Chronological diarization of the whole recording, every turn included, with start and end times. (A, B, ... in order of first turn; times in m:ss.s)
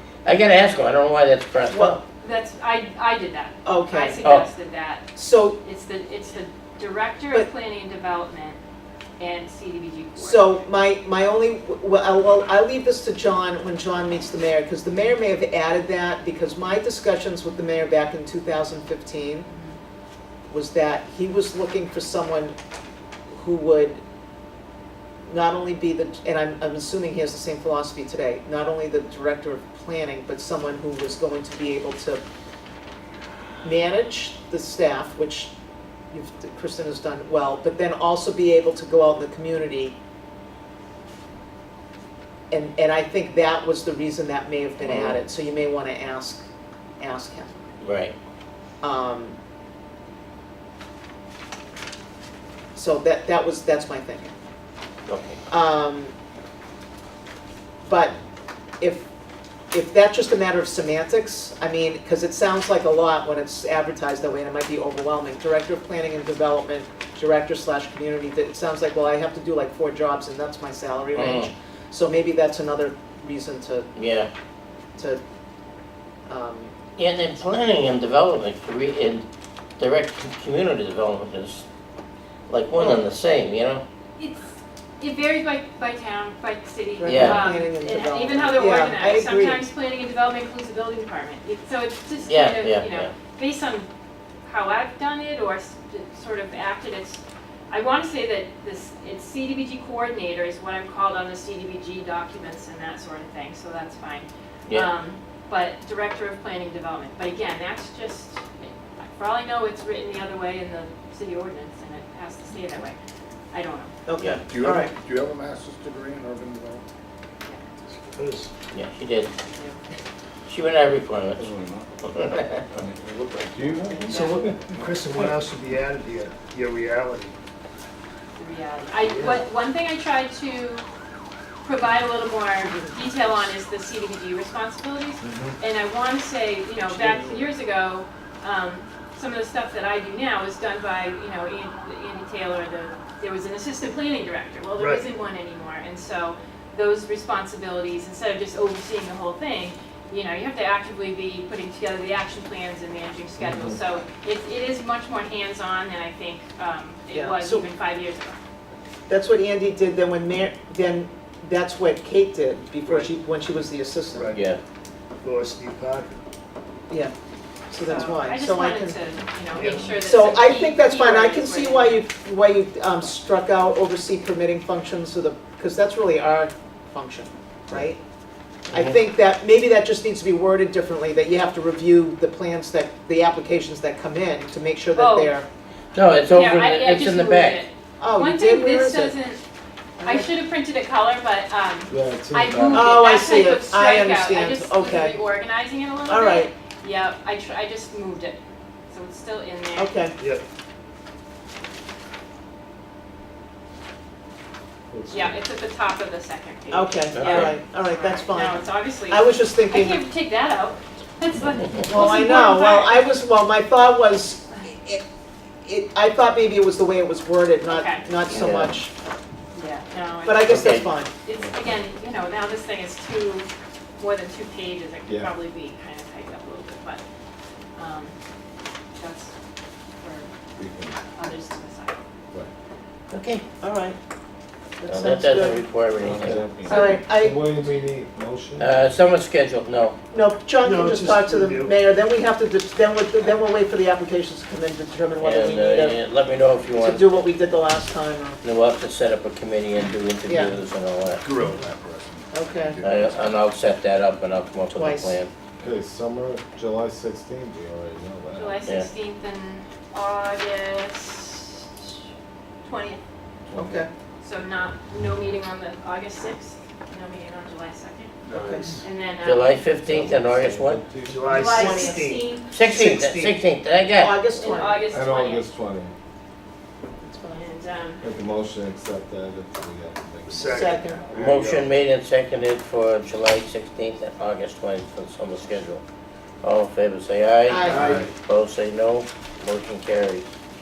0:00.2-0:02.0 A
0:01.7-0:02.0 B
0:02.2-0:05.0 C
0:03.6-0:04.2 B
0:05.1-0:05.6 B
0:05.6-0:08.6 C
0:09.2-0:10.6 C
0:10.2-0:19.5 B
0:19.5-0:19.8 C
0:20.5-0:22.5 B
0:23.3-0:24.0 B
0:25.3-0:32.2 B
0:33.6-0:35.5 B
0:36.1-0:40.0 B
0:42.5-0:46.4 B
0:44.8-0:45.2 A
0:47.0-0:47.6 B
0:47.8-0:48.1 A
0:48.8-0:49.4 B
0:52.7-0:54.3 B
0:55.1-0:55.4 A
0:55.5-0:56.1 B
0:57.8-0:58.2 B
0:58.8-0:59.0 B
0:59.7-1:13.9 B
1:11.1-1:11.5 A
1:14.0-1:14.3 A
1:16.3-1:16.7 B
1:17.0-1:19.2 A
1:19.8-1:21.6 A
1:22.5-1:23.8 A
1:22.8-1:23.0 B
1:24.2-1:33.9 C
1:27.0-1:29.6 B
1:27.0-1:27.5 A
1:32.3-1:33.1 A
1:34.4-1:53.0 C
1:53.5-1:53.9 C
1:54.0-1:54.9 B
1:54.5-1:56.8 D
1:58.1-1:58.5 E
1:58.7-1:59.3 A
1:59.4-1:59.8 C
2:00.5-2:01.5 A
2:01.4-2:01.9 F
2:02.0-2:02.6 A
2:02.7-2:05.3 F
2:02.9-2:03.7 D
2:04.0-2:07.3 E
2:08.4-2:10.8 C
2:09.0-2:09.4 E
2:11.6-2:38.4 C
2:12.8-2:13.4 B
2:15.2-2:15.6 F
2:24.8-2:25.0 E
2:33.4-2:33.7 F
2:37.1-2:37.6 B
2:39.1-2:44.4 B
2:42.8-2:43.1 E
2:44.1-2:44.4 E
2:44.3-2:44.6 A
2:45.2-2:46.2 E
2:47.7-2:49.0 B
2:47.8-2:52.0 C
2:49.5-2:50.0 E
2:49.8-2:58.0 B
2:58.7-2:59.0 A
2:58.7-3:05.4 B
3:04.9-3:05.3 C
3:05.9-3:07.6 A
3:06.3-3:09.4 C
3:08.0-3:09.1 B
3:10.0-3:10.3 B
3:10.0-3:18.4 C
3:11.9-3:13.0 F
3:12.7-3:15.2 B
3:16.0-3:16.5 B
3:18.9-3:19.9 C
3:19.7-3:20.2 B
3:20.2-3:20.4 E
3:24.9-3:25.4 F
3:25.1-3:33.1 C
3:26.7-3:30.0 B
3:27.1-3:27.5 A
3:31.8-3:35.0 B
3:35.6-3:38.9 B
3:37.7-3:38.0 C
3:38.3-3:38.7 A
3:39.5-3:43.5 C
3:40.2-3:41.1 B
3:40.4-3:40.9 A
3:44.0-3:47.0 C
3:45.1-3:45.3 F
3:47.8-3:48.1 C
3:49.0-3:49.3 C
3:50.0-3:50.3 C
3:50.6-3:51.0 F
3:51.1-3:52.0 C
3:53.1-3:53.4 A
3:53.6-3:54.0 B
3:54.8-3:55.7 B
3:54.9-3:56.4 A
3:56.0-3:58.9 F
3:56.6-3:57.0 C
3:56.6-3:57.4 B
3:58.6-4:00.0 A
4:00.1-4:06.0 B
4:00.6-4:01.7 E
4:05.2-4:07.3 A
4:06.8-4:08.4 B
4:08.4-4:11.2 A
4:10.2-4:10.6 B
4:11.2-4:13.1 D
4:11.2-4:11.6 E
4:12.3-4:12.8 B
4:12.8-4:15.3 A
4:14.7-4:15.2 B
4:15.6-4:18.6 F
4:18.4-4:22.0 C
4:22.6-4:23.0 C
4:23.4-4:23.8 F
4:23.5-4:23.9 B
4:24.2-4:28.2 C
4:28.2-4:28.8 E
4:28.3-4:28.7 B
4:28.7-4:29.6 C
4:29.2-4:30.8 A
4:29.8-4:31.4 F
4:31.0-4:33.3 E
4:31.3-4:32.6 C
4:31.5-4:32.0 B
4:32.5-4:34.2 A
4:34.0-4:34.8 B
4:34.4-4:35.4 C
4:34.9-4:35.9 F
4:37.0-4:37.4 B
4:37.3-4:38.0 C
4:38.0-4:41.3 F
4:40.3-4:40.9 E
4:40.5-4:41.0 B
4:41.1-4:45.8 A
4:46.4-4:50.2 A
4:47.5-4:47.9 B
4:47.6-4:48.1 F
4:47.7-4:48.0 E